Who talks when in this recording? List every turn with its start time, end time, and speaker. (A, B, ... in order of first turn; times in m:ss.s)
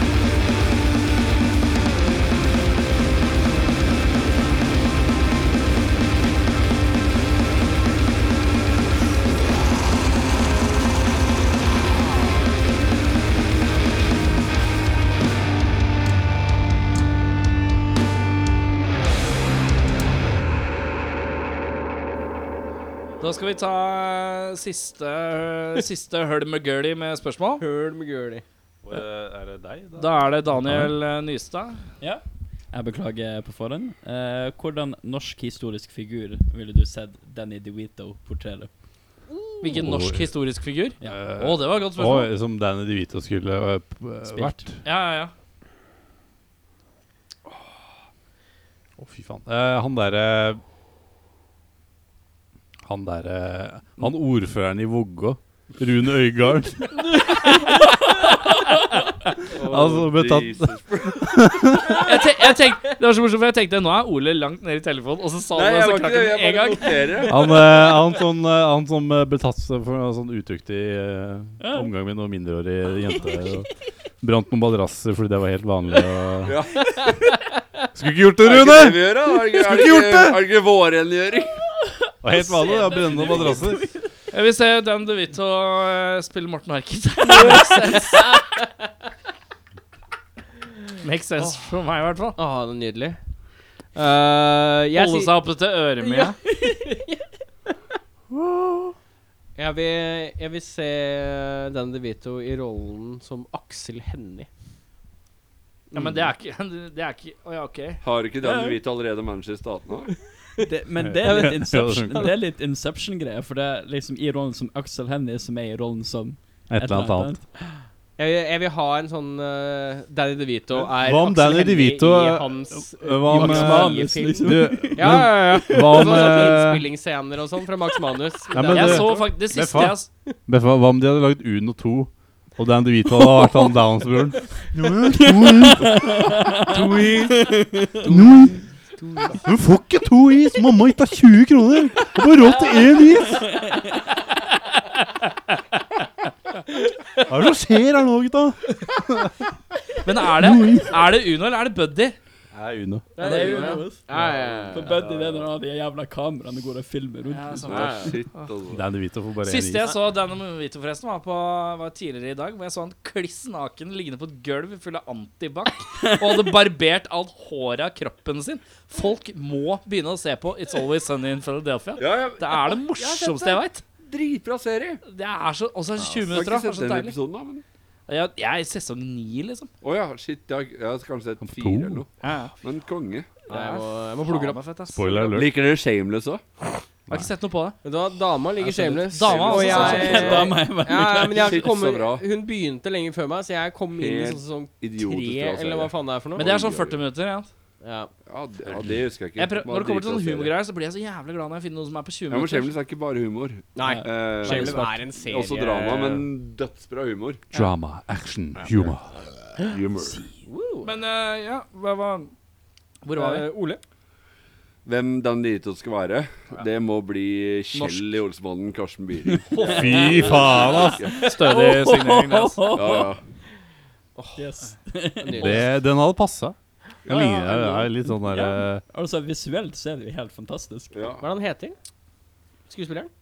0:23.2-0:27.6 A
0:27.6-0:28.4 B
0:28.8-0:30.9 C
0:30.0-0:31.8 A
0:32.0-0:38.7 D
0:39.6-0:42.3 A
0:39.7-0:40.3 C
0:41.0-0:44.8 C
0:44.3-0:44.6 D
0:44.8-0:45.3 A
0:49.0-0:50.6 C
0:52.8-0:57.1 C
0:57.3-0:59.1 A
0:59.5-1:01.8 E
0:59.6-1:02.1 C
1:02.0-1:07.2 A
1:05.5-1:07.5 E
1:07.3-1:16.6 C
1:11.6-1:11.9 D
1:16.4-1:17.3 E
1:17.9-1:20.4 C
1:18.4-1:21.6 E
1:22.2-1:23.8 C
1:22.3-1:24.0 D
1:23.3-1:23.6 E
1:24.3-1:28.3 A
1:27.3-1:28.7 B
1:31.0-1:32.4 A
1:32.4-1:33.2 B
1:33.9-1:35.3 B
1:34.9-1:36.4 A
1:36.0-1:37.2 B
1:39.6-1:44.5 B
1:45.9-1:46.2 B
1:45.9-1:48.0 A
1:48.0-1:50.1 E
1:48.4-1:48.8 D
1:50.6-1:57.5 D
1:51.0-1:52.3 C
1:51.2-1:51.5 B
1:56.7-1:57.4 C
1:58.2-2:09.3 B
2:01.0-2:06.8 C
2:03.2-2:06.4 D
2:08.5-2:17.4 C
2:08.7-2:10.1 A
2:13.3-2:13.7 D
2:15.1-2:18.2 D
2:18.0-2:18.6 C
2:19.0-2:19.4 B
2:19.4-2:23.6 C
2:23.2-2:24.1 D
2:24.7-2:26.0 A
2:27.3-2:29.5 C
2:30.0-2:32.2 A
2:30.3-2:31.0 C
2:32.5-2:33.1 C
2:33.2-2:35.0 B
2:33.2-2:34.1 D
2:34.2-2:35.4 E
2:34.7-2:37.9 D
2:37.3-2:38.5 A
2:37.7-2:38.8 E
2:37.7-2:38.1 B
2:38.7-2:39.9 C
2:39.4-2:53.8 A
2:45.9-2:46.5 D
2:52.0-2:52.8 E
2:53.0-2:53.5 B
2:54.0-2:55.0 E
2:55.0-2:57.2 A
2:56.2-2:57.6 E
2:58.1-2:59.7 A
2:59.8-3:02.1 E
3:01.4-3:02.0 C
3:02.2-3:02.6 A
3:02.6-3:03.3 E
3:03.5-3:05.3 A
3:03.5-3:04.6 B
3:04.9-3:05.5 C
3:05.3-3:06.4 E
3:07.1-3:07.8 A
3:07.8-3:16.4 B
3:08.6-3:11.6 D
3:09.1-3:10.5 A
3:09.1-3:10.6 E
3:11.1-3:12.2 E
3:14.0-3:17.0 E
3:16.4-3:17.5 A
3:17.8-3:18.1 B
3:18.3-3:20.5 E
3:19.4-3:22.7 A
3:22.3-3:27.4 E
3:23.8-3:26.3 B
3:23.8-3:25.1 D
3:27.5-3:29.1 C
3:29.6-3:30.2 E
3:30.4-3:30.9 B
3:30.8-3:32.3 A
3:33.0-3:33.5 A
3:33.1-3:33.8 B
3:34.8-3:41.2 E
3:37.7-3:38.2 A
3:39.5-3:43.0 A
3:39.6-3:42.3 C
3:41.2-3:43.2 D
3:42.7-3:43.2 E
3:44.2-3:44.4 B
3:44.4-3:45.6 D
3:45.2-3:45.7 B
3:45.3-3:48.8 C
3:48.2-3:51.0 D
3:50.9-3:51.2 E
3:51.2-3:51.8 B
3:52.7-3:53.1 B